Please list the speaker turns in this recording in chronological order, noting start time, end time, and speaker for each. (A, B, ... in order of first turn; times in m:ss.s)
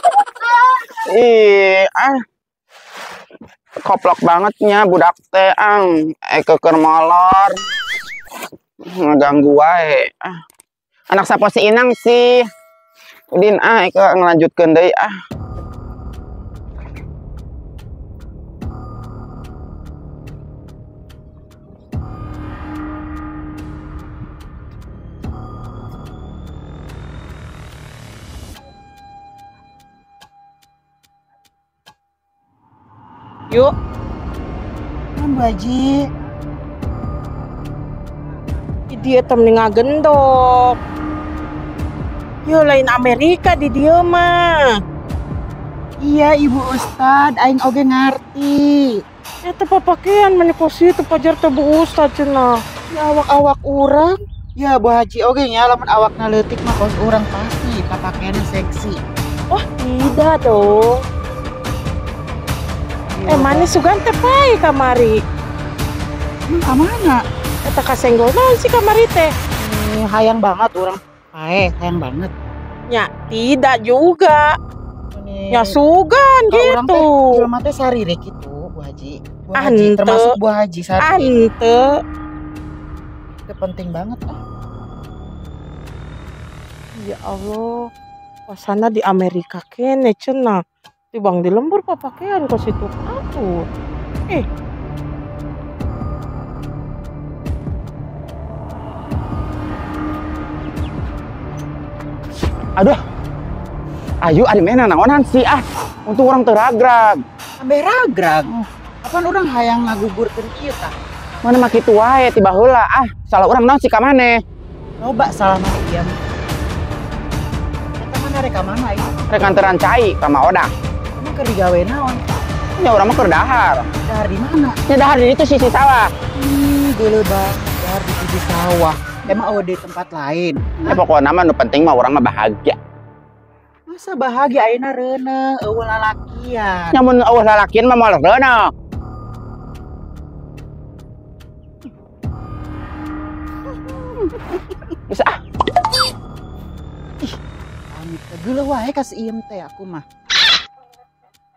0:01.0-0:02.2 A
0:03.8-0:07.6 A
0:08.9-0:10.4 A
0:11.1-0:12.4 A
0:13.3-0:15.1 A
0:35.2-0:36.0 B
0:38.9-0:40.8 C
0:42.4-0:44.8 C
0:46.0-0:49.0 B
0:49.4-0:52.6 C
0:52.9-0:59.0 B
0:59.5-1:01.0 C
1:03.2-1:03.7 B
1:03.3-1:05.2 C
1:06.5-1:07.2 B
1:07.6-1:09.3 C
1:09.6-1:12.3 B
1:12.9-1:14.6 C
1:15.1-1:15.7 B
1:15.5-1:17.5 C
1:16.5-1:21.3 B
1:19.6-1:20.3 C
1:21.0-1:22.0 C
1:23.5-1:24.4 B
1:27.0-1:27.9 C
1:28.5-1:30.6 C
1:31.1-1:33.7 C
1:44.2-1:47.2 A
1:47.6-1:50.9 B
1:51.4-1:54.4 A
1:55.0-1:56.1 B
1:58.0-1:59.1 B
1:59.3-2:00.7 A
2:01.2-2:02.2 B
2:02.8-2:03.9 A
2:04.0-2:04.8 B
2:04.9-2:06.1 A
2:06.4-2:11.0 B
2:10.8-2:12.8 A
2:13.9-2:17.0 B
2:16.9-2:18.7 A
2:25.1-2:25.3 A
2:27.9-2:30.0 B